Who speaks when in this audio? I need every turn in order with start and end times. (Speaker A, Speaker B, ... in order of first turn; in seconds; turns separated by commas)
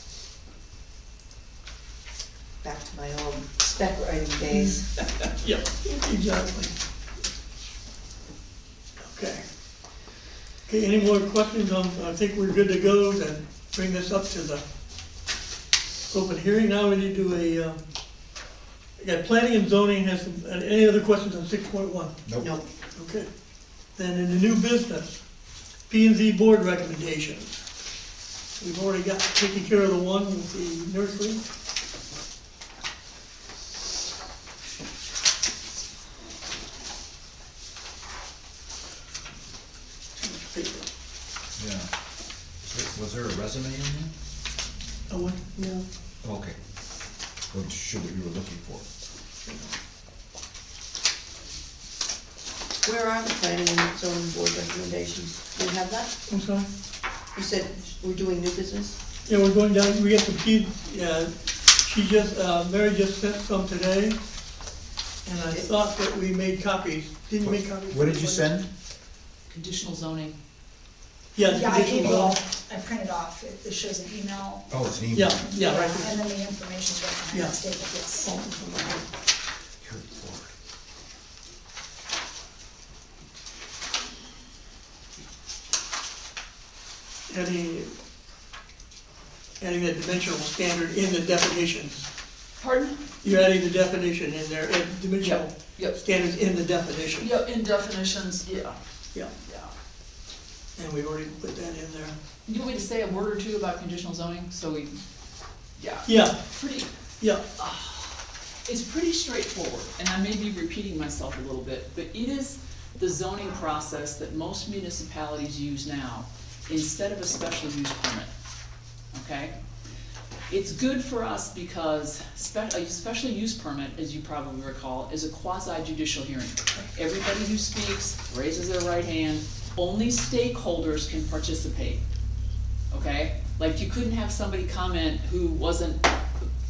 Speaker A: 2.6-4.9, Speaker B: 5.2-6.7, Speaker B: 9.0-9.4, Speaker B: 10.7-14.6, Speaker B: 16.1-17.8, Speaker B: 19.0-22.1, Speaker A: 22.4-22.6, Speaker B: 22.9-23.3, Speaker B: 23.9-25.2, Speaker B: 25.9-27.6, Speaker B: 28.6-31.4, Speaker B: 40.2-40.9, Speaker C: 41.6-41.9, Speaker C: 42.6-44.1, Speaker B: 45.1-45.8, Speaker C: 46.2-46.5, Speaker C: 47.5-48.8, Speaker A: 52.8-56.1, Speaker B: 56.3-56.7, Speaker A: 57.3-59.0, Speaker B: 59.2-64.2, Speaker B: 65.2-68.5, Speaker C: 67.4-68.6, Speaker D: 69.5-70.3, Speaker B: 71.3-72.4, Speaker E: 71.4-74.7, Speaker C: 74.7-75.4, Speaker B: 75.1-76.2, Speaker E: 75.4-78.3, Speaker B: 77.3-79.0, Speaker C: 79.8-80.5, Speaker B: 87.3-87.9, Speaker B: 89.6-92.0, Speaker D: 92.6-93.0, Speaker B: 93.2-97.3, Speaker D: 95.2-96.0, Speaker D: 97.2-98.8, Speaker D: 99.4-99.7, Speaker B: 100.8-102.1, Speaker D: 102.5-105.0, Speaker D: 105.8-106.9, Speaker B: 106.0-106.4, Speaker B: 107.2-107.6, Speaker D: 108.7-118.3, Speaker D: 119.1-119.5, Speaker D: 120.5-132.0, Speaker D: 132.9-136.1